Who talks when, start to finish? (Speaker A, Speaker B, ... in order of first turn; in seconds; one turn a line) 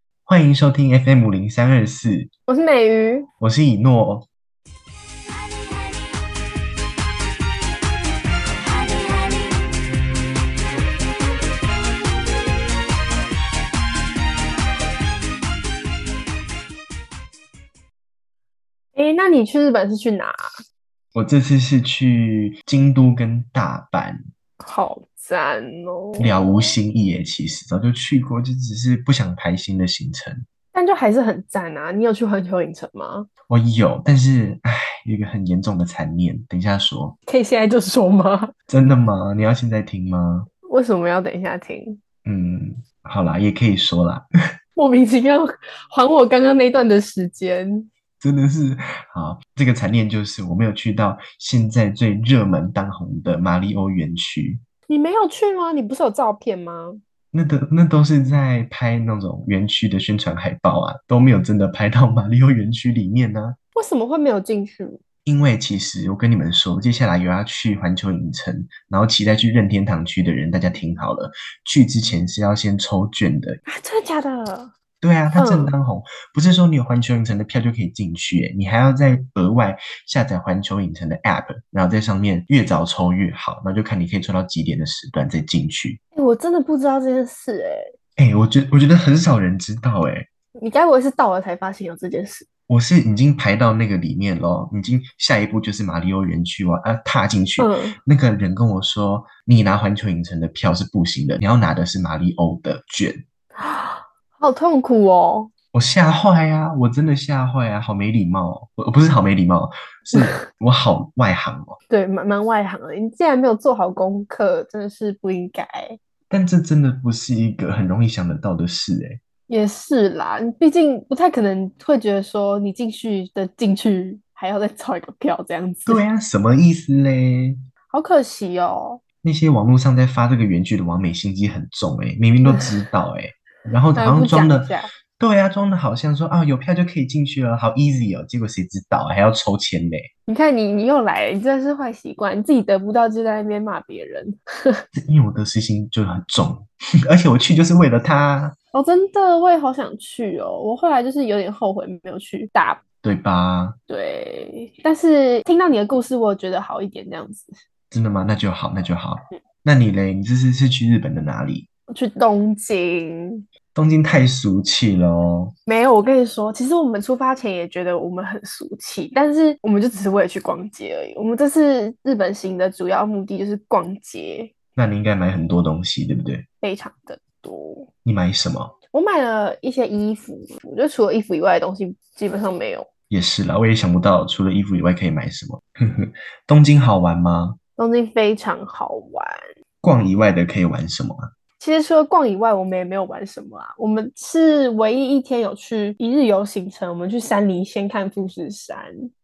Speaker A: 0.3-2.3
Speaker B: 2.5-3.3
Speaker A: 3.4-4.3
Speaker B: 19.0-20.5
Speaker A: 21.1-24.2
Speaker B: 24.6-26.7
Speaker A: 26.2-30.4
Speaker B: 30.7-33.3
Speaker A: 33.5-37.2
Speaker B: 37.3-38.5
Speaker A: 38.7-40.5
Speaker B: 40.7-42.0
Speaker A: 42.2-44.3
Speaker B: 44.8-47.9
Speaker A: 48.2-54.6
Speaker B: 54.9-57.0
Speaker A: 57.3-63.6
Speaker B: 63.8-65.0
Speaker A: 65.2-73.6
Speaker B: 73.7-74.7
Speaker A: 75.0-86.0
Speaker B: 75.3-75.7
Speaker B: 86.1-87.9
Speaker A: 88.2-90.3
Speaker B: 90.6-92.5
Speaker A: 92.7-103.2
Speaker B: 97.6-98.0
Speaker B: 103.6-105.5
Speaker A: 105.7-111.8
Speaker B: 110.1-110.4
Speaker B: 111.9-116.0
Speaker A: 116.3-119.2
Speaker B: 119.5-126.0
Speaker A: 125.9-127.6
Speaker B: 127.9-129.0
Speaker A: 129.2-140.1
Speaker B: 132.4-132.8
Speaker B: 133.9-134.9
Speaker B: 140.3-144.8
Speaker A: 144.9-148.6
Speaker B: 148.7-152.8
Speaker A: 153.0-153.8
Speaker B: 153.9-157.6
Speaker A: 157.9-161.7
Speaker B: 161.9-163.4
Speaker A: 163.7-165.5
Speaker B: 165.7-174.5
Speaker A: 174.8-176.4
Speaker B: 176.6-177.9
Speaker A: 178.1-178.7
Speaker B: 178.9-182.9
Speaker A: 183.1-187.6
Speaker B: 187.8-189.5
Speaker A: 189.8-191.3
Speaker B: 191.6-199.1